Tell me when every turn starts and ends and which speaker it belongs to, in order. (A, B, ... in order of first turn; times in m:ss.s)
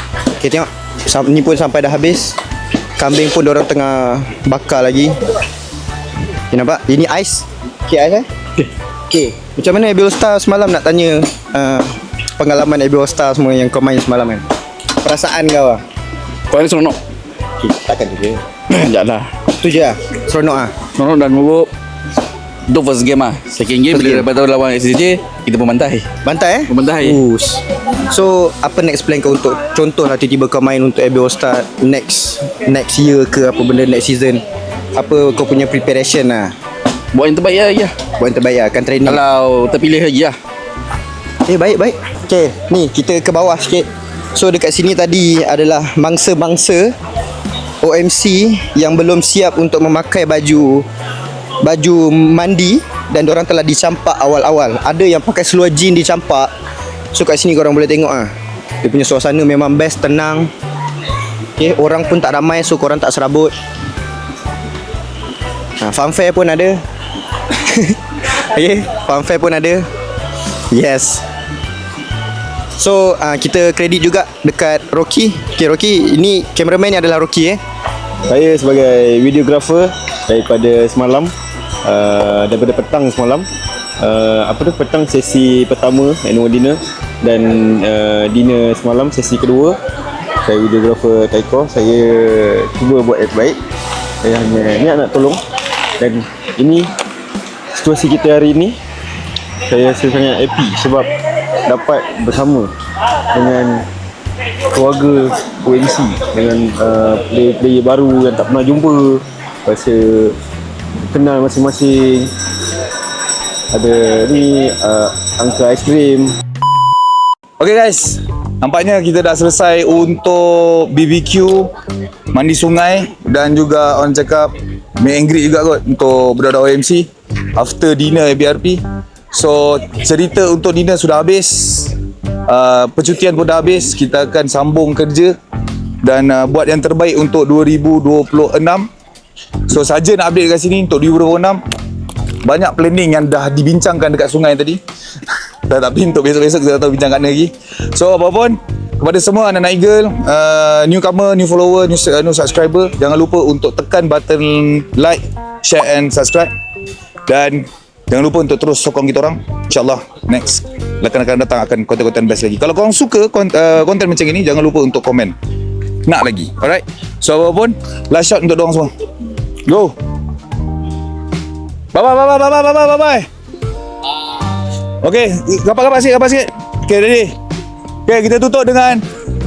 0:00.4-0:02.4 A
0:03.0-0:05.1 A
0:06.5-0:08.2 A
0:09.1-0:14.4 A
0:15.0-0:15.8 A
0:16.5-0:17.0 B
0:17.6-0:18.4 A
0:18.7-0:19.3 B
0:19.6-0:20.7 A
0:21.0-0:21.7 B
0:22.7-0:26.0 B
0:23.9-0:24.3 A
0:26.2-0:34.4 A
0:26.7-0:27.2 B
0:34.9-0:36.5 A
0:37.1-0:37.9 B
0:38.2-0:39.2 A
0:39.1-0:40.4 B
0:41.4-0:46.9 A
0:47.8-0:50.8 A
0:51.6-0:56.5 A
0:57.1-0:58.3 A
0:58.8-1:00.5 A
1:01.6-1:03.5 A
1:05.8-1:06.8 A
1:07.7-1:08.0 A
1:08.5-1:09.8 A
1:10.7-1:11.2 A
1:12.8-1:17.6 A
1:18.3-1:21.3 C
1:21.8-1:23.4 C
1:24.0-1:29.8 C
1:30.4-1:33.6 C
1:34.2-1:35.4 C
1:36.0-1:36.9 C
1:37.7-1:38.8 C
1:39.7-1:41.1 C
1:41.6-1:42.7 C
1:43.3-1:43.8 C
1:44.7-1:50.4 C
1:51.1-1:52.3 C
1:53.7-1:56.3 C
1:57.6-2:01.7 D
2:02.3-2:11.9 D
2:12.5-2:15.3 D
2:16.0-2:18.9 D
2:19.7-2:21.6 D
2:22.4-2:24.8 D
2:25.7-2:36.5 D
2:37.3-2:45.3 D
2:46.0-2:48.9 D
2:49.6-2:49.9 D
2:51.9-2:53.2 D
2:55.0-2:57.3 D
2:58.1-2:59.0 D